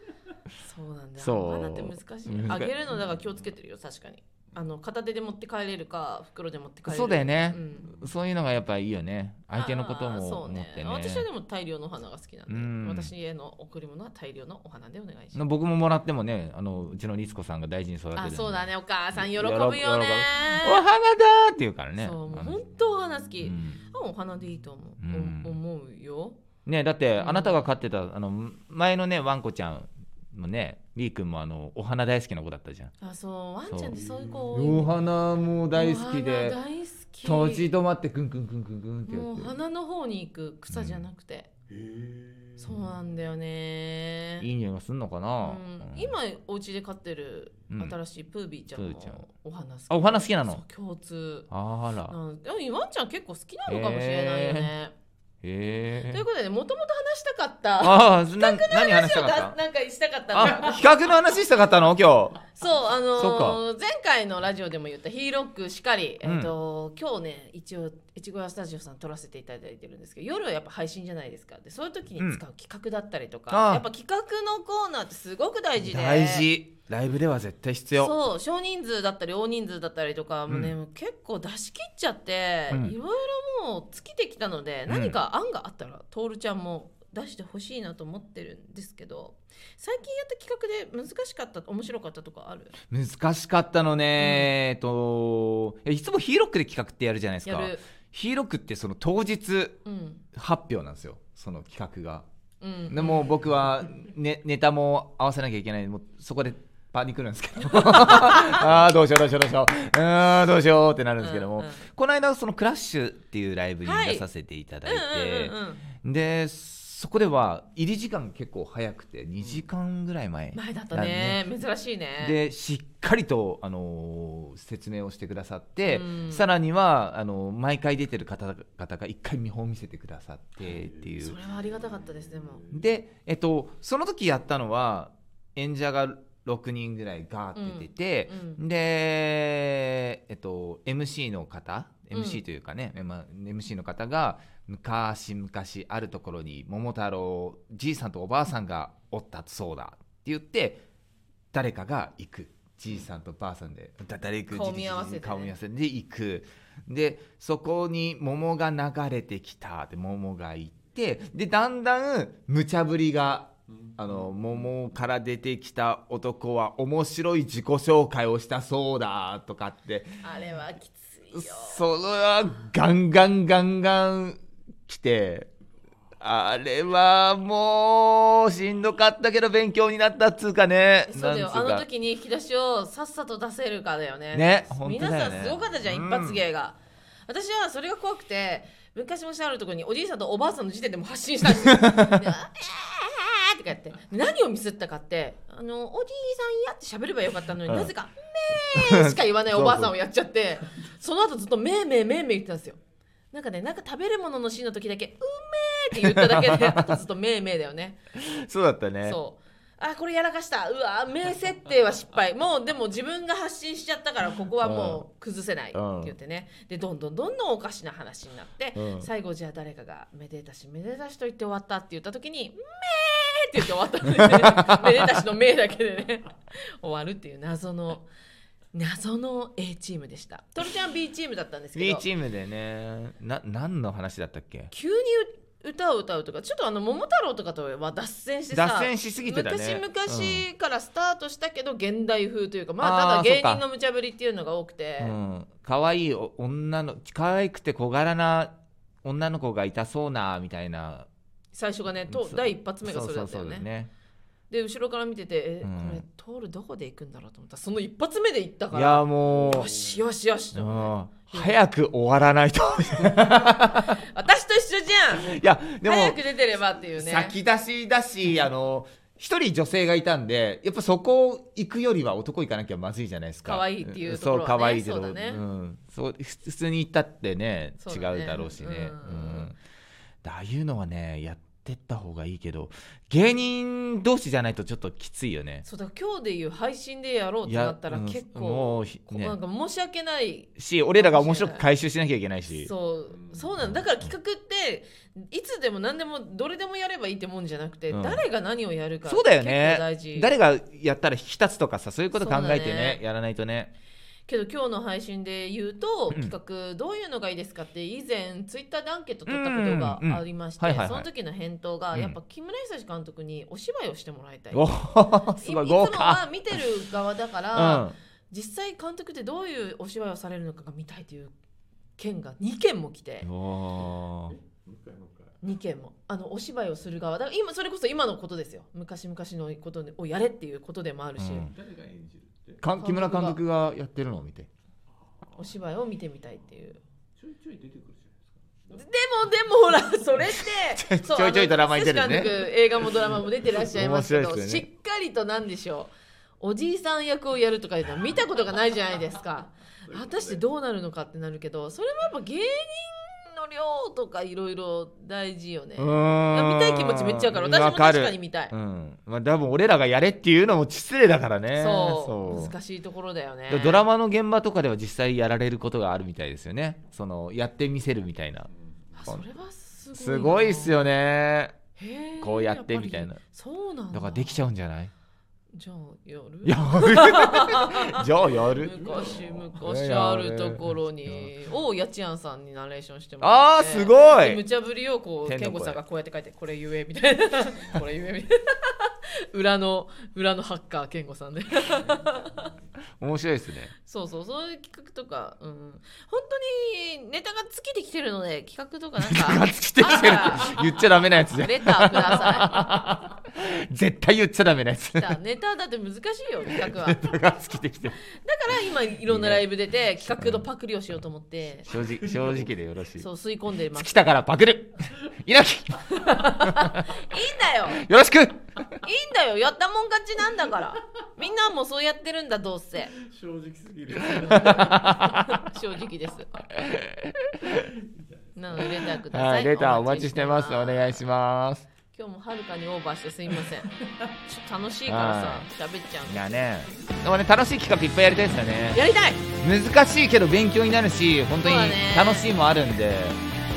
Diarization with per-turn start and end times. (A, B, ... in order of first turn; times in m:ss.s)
0:00.6-0:08.0 A
0:01.2-0:02.7 B
0:06.9-0:11.3 B
0:09.6-0:15.4 A
0:12.5-0:13.1 B
0:15.4-0:22.6 B
0:18.2-0:20.8 A
0:22.0-0:26.4 A
0:23.4-0:23.8 B
0:25.0-0:25.6 B
0:26.6-0:32.9 B
0:27.2-0:27.6 A
0:33.0-0:34.9 A
0:33.7-0:34.0 B
0:34.5-0:36.6 B
0:35.8-0:37.7 A
0:37.2-0:39.5 B
0:39.1-0:41.5 A
0:40.7-0:41.1 B
0:41.7-0:42.6 C
0:42.6-0:44.5 A
0:44.4-0:46.2 B
0:45.4-0:51.5 A
0:48.7-0:49.2 B
0:49.9-0:50.6 B
0:51.5-0:52.2 B
0:52.1-0:54.9 A
0:53.7-0:54.7 B
0:55.4-0:56.2 B
0:56.1-1:00.9 A
0:57.8-0:59.6 B
1:00.3-1:02.4 B
1:02.5-1:16.5 A
1:03.2-1:03.6 B
1:06.2-1:06.5 B
1:13.5-1:13.8 B
1:15.8-1:18.1 B
1:17.9-1:32.8 A
1:20.5-1:20.8 B
1:22.7-1:23.0 B
1:24.9-1:25.2 B
1:32.9-1:39.8 B
1:34.2-1:34.5 A
1:37.5-1:37.8 A
1:39.8-1:40.2 A
1:40.3-1:42.3 B
1:42.6-1:43.3 A
1:42.9-2:01.4 B
1:48.2-1:48.6 A
1:51.2-1:51.8 A
1:53.8-1:54.3 A
1:54.8-1:55.8 A
2:00.5-2:02.4 A
2:02.2-2:11.4 B
2:05.9-2:06.5 A
2:11.2-2:12.7 A
2:12.7-2:30.8 B
2:17.6-2:18.6 A
2:22.1-2:22.4 A
2:31.5-2:50.2 B
2:34.5-2:35.5 A
2:50.2-2:51.8 A
2:51.3-2:55.5 B
2:56.2-3:01.8 B
3:01.1-3:22.8 A
3:04.3-3:06.4 B
3:11.5-3:12.2 B
3:17.7-3:17.9 B
3:18.7-3:19.9 B
3:23.3-3:28.0 A
3:26.0-3:27.0 B
3:28.1-3:29.2 B
3:29.0-3:48.1 A
3:34.6-3:35.0 B
3:35.7-3:36.1 B
3:38.8-3:39.1 B
3:44.3-3:45.1 B
3:48.7-3:52.0 A
3:51.8-3:54.7 B
3:54.7-4:05.2 A
3:58.5-4:00.4 B
4:02.8-4:03.6 B
4:05.0-4:08.5 B
4:09.0-4:11.1 B
4:11.5-4:13.7 A
4:12.1-4:13.9 B
4:14.5-4:21.6 A
4:15.6-4:16.0 B
4:18.7-4:19.7 B
4:20.6-4:23.9 B
4:23.0-4:27.4 A
4:25.2-4:26.2 B
4:26.9-4:39.6 B
4:33.4-4:35.4 A
4:37.8-4:39.5 A
4:40.2-4:45.6 B
4:45.6-4:51.6 A
4:47.5-4:49.4 B
4:50.6-4:52.7 B
4:52.5-5:00.3 A
4:57.9-4:58.2 B
4:59.0-5:03.7 B
5:02.1-5:03.0 A
5:04.3-5:21.3 A
5:09.3-5:11.1 B
5:14.5-5:16.6 B
5:17.5-5:18.0 B
5:22.0-5:23.3 A
5:23.2-5:24.4 B
5:24.4-5:25.4 C
5:25.4-5:31.5 A
5:31.2-5:31.5 B
5:31.5-5:32.6 C
5:32.6-5:34.5 B
5:32.8-5:33.4 A
5:35.4-5:36.8 A
5:37.2-5:38.8 C
5:38.7-5:58.5 A
5:40.3-5:42.5 B
5:43.5-5:44.7 B
5:55.8-6:02.5 B
6:01.6-6:03.8 A
6:03.5-6:08.5 B
6:09.0-6:10.9 A
6:09.9-6:11.6 B
6:11.8-6:14.4 A
6:12.2-6:13.2 B
6:13.9-6:14.9 B
6:15.5-6:32.5 A
6:16.4-6:19.0 B
6:19.6-6:21.3 B
6:23.2-6:24.4 B
6:25.3-6:25.8 B
6:33.0-6:33.7 B
6:33.8-6:40.7 A
6:39.0-6:45.2 B
6:41.3-6:42.6 A
6:45.0-6:47.1 A
6:46.5-6:48.0 B
6:48.0-6:51.7 A
6:49.0-6:49.5 B
6:50.0-6:50.5 B
6:51.7-6:53.1 B
6:53.0-6:54.0 A
6:53.7-6:57.0 B
6:55.9-6:57.8 A
6:57.7-6:58.6 B
6:58.8-7:03.0 A
7:03.0-7:04.7 C
7:04.0-7:06.5 A
7:04.2-7:05.4 B
7:06.5-7:07.7 B
7:08.4-7:11.0 A
7:09.1-7:11.7 B
7:11.9-7:16.4 A
7:14.9-7:15.5 B
7:16.1-7:18.8 B
7:18.7-7:19.2 A
7:19.4-7:23.2 B
7:21.4-7:22.3 A